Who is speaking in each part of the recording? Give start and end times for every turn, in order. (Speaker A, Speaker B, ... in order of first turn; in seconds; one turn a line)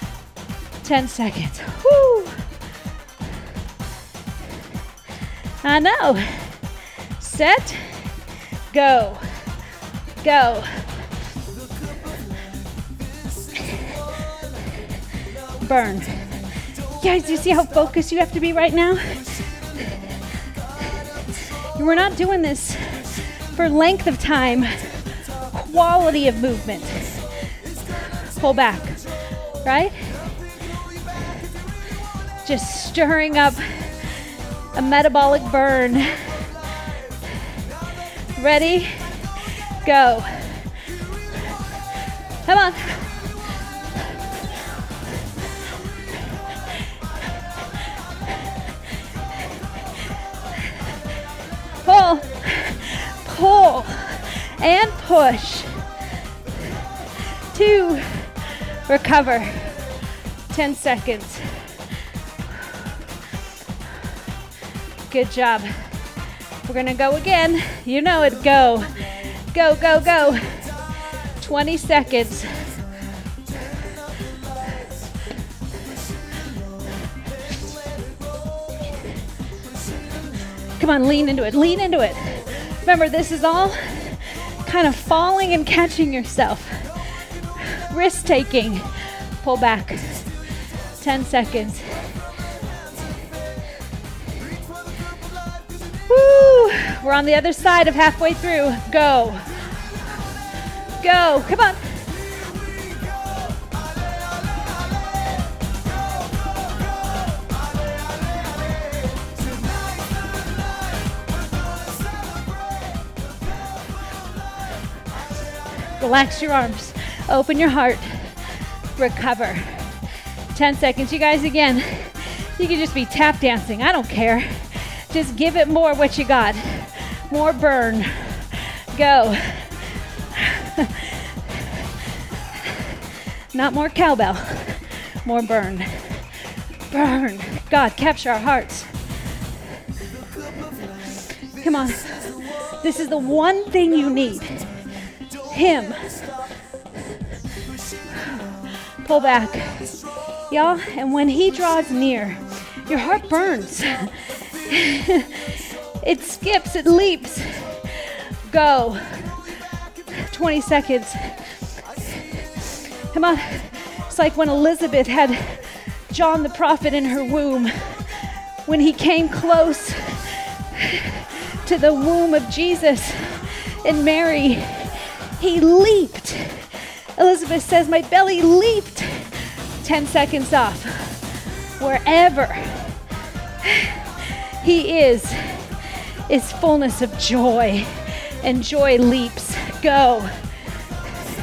Speaker A: 0.8-2.4
Speaker A: 5.6-6.6
Speaker A: 7.2-8.1
Speaker A: 8.7-9.2
Speaker A: 10.2-10.9
Speaker A: 15.6-16.3
Speaker A: 17.0-19.5
Speaker A: 21.8-24.9
Speaker A: 25.5-27.2
Speaker A: 28.3-29.0
Speaker A: 29.6-30.4
Speaker A: 32.5-33.9
Speaker A: 34.8-36.5
Speaker A: 38.4-39.3
Speaker A: 39.8-40.7
Speaker A: 42.5-43.1
Speaker A: 51.8-55.7
Speaker A: 57.5-59.8
Speaker A: 60.5-61.7
Speaker A: 65.1-65.7
Speaker A: 66.7-70.7
Speaker A: 71.4-72.5
Speaker A: 80.8-87.0
Speaker A: 87.6-88.9
Speaker A: 89.4-90.3
Speaker A: 91.0-91.9
Speaker A: 96.1-99.5
Speaker A: 101.0-102.0
Speaker A: 116.0-118.3
Speaker A: 119.0-119.9
Speaker A: 120.5-131.9
Speaker A: 132.6-132.9
Speaker A: 133.5-136.3
Speaker A: 136.9-138.9
Speaker A: 141.6-144.7
Speaker A: 145.5-146.3
Speaker A: 149.0-150.0
Speaker A: 150.5-159.3
Speaker A: 160.2-161.3
Speaker A: 162.6-181.2
Speaker A: 181.8-183.0
Speaker A: 183.6-190.3